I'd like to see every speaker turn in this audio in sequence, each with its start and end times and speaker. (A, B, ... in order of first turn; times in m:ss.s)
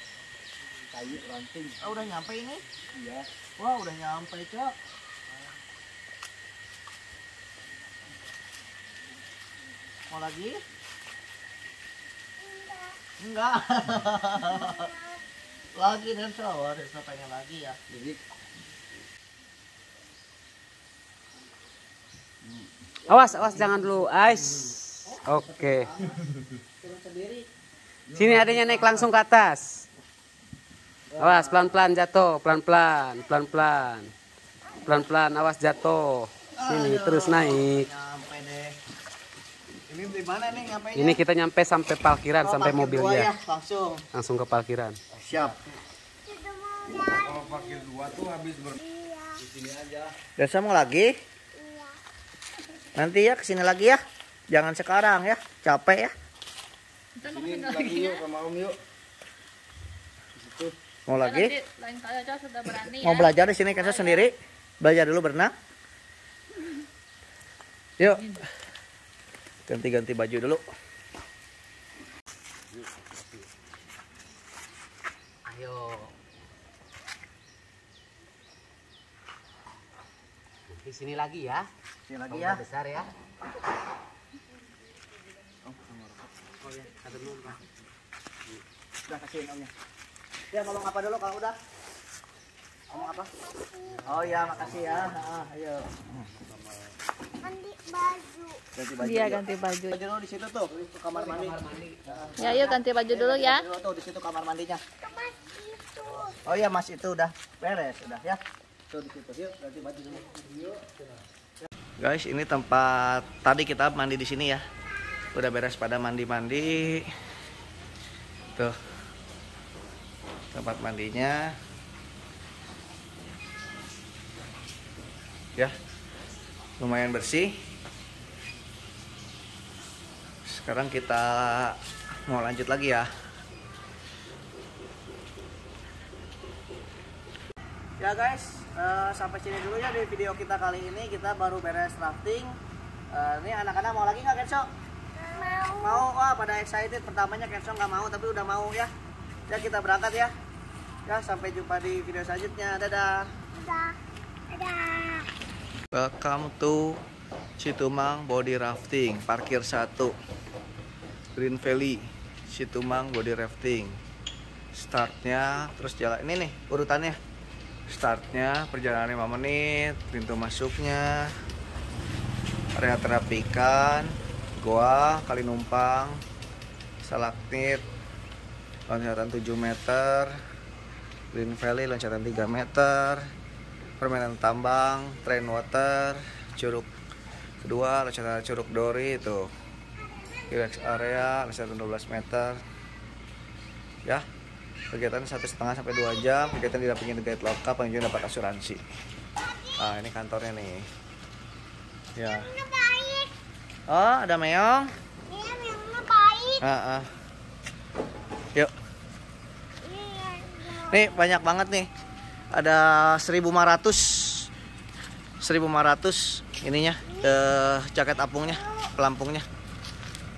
0:00.9-0:01.8 A
0:01.8-0:02.6 B
0:02.9-0:03.2 A
0:03.6-0:04.7 B
0:10.1-0:10.6 B
0:12.4-0:13.0 C
0:13.2-0:14.8 B
0:14.3-0:15.2 C
0:15.8-0:17.8 B
0:17.9-0:18.2 A
0:23.1-0:25.9 D
0:23.4-0:23.7 A
0:25.0-0:26.2 B
0:26.8-0:27.4 B
0:28.1-0:29.0 A
0:28.1-0:29.8 D
0:31.1-0:31.5 B
0:31.2-0:34.1 D
0:34.8-0:37.8 D
0:36.6-0:38.7 B
0:39.9-0:41.2 B
0:41.0-0:43.3 D
0:42.4-0:44.0 B
0:44.1-0:45.0 D
0:45.2-0:45.6 B
0:45.3-0:45.7 A
0:46.2-0:47.9 C
0:46.9-0:48.8 A
0:48.8-0:49.4 C
0:49.4-0:50.1 A
0:50.4-0:51.1 B
0:51.5-0:52.0 C
0:53.0-0:54.0 B
0:54.5-0:56.1 B
0:57.2-0:58.2 E
0:57.2-0:58.8 A
1:00.4-1:00.7 A
1:01.1-1:01.5 B
1:01.2-1:04.3 E
1:02.8-1:05.5 B
1:08.0-1:08.4 B
1:09.7-1:10.6 B
1:15.5-1:16.1 D
1:20.7-1:21.7 D
1:22.1-1:22.6 B
1:22.3-1:23.1 D
1:26.7-1:27.6 D
1:29.1-1:29.7 B
1:30.5-1:31.6 B
1:32.9-1:33.3 B
1:32.9-1:34.2 C
1:34.0-1:36.3 B
1:34.4-1:35.1 A
1:37.4-1:38.6 C
1:38.8-1:41.6 B
1:39.0-1:39.9 E
1:41.2-1:42.2 D
1:42.0-1:42.4 A
1:42.3-1:44.8 B
1:42.4-1:43.6 E
1:45.0-1:46.4 C
1:46.4-1:50.3 B
1:50.1-1:51.1 A
1:52.0-1:54.6 B
1:55.3-1:57.1 B
2:00.5-2:01.5 B
2:06.8-2:07.5 B
2:10.5-2:13.1 B
2:18.0-2:22.6 B
2:23.1-2:24.6 B
2:25.2-2:26.0 C
2:25.8-2:28.9 B
2:29.5-2:30.3 B
2:31.1-2:33.3 B
2:33.5-2:34.0 C
2:34.5-2:35.2 C
2:35.9-2:37.0 B
2:37.6-2:40.1 B
2:41.4-2:44.0 B
2:44.7-2:47.2 B
2:47.9-2:51.3 B
2:52.8-2:56.2 B
2:57.0-2:57.8 B
2:58.9-3:00.4 B
3:01.3-3:03.3 B
3:04.0-3:06.9 B
3:07.6-3:09.4 B
3:10.5-3:12.6 B
3:14.9-3:18.8 B
3:19.4-3:19.7 C
3:19.8-3:20.9 B
3:22.2-3:22.5 B
3:22.2-3:23.3 C
3:23.9-3:24.9 B
3:25.3-3:26.7 C
3:26.6-3:27.1 B
3:29.8-3:31.5 C
3:30.9-3:31.9 B
3:32.5-3:34.5 B
3:35.4-3:39.4 B
3:37.1-3:37.3 C
3:38.4-3:38.9 C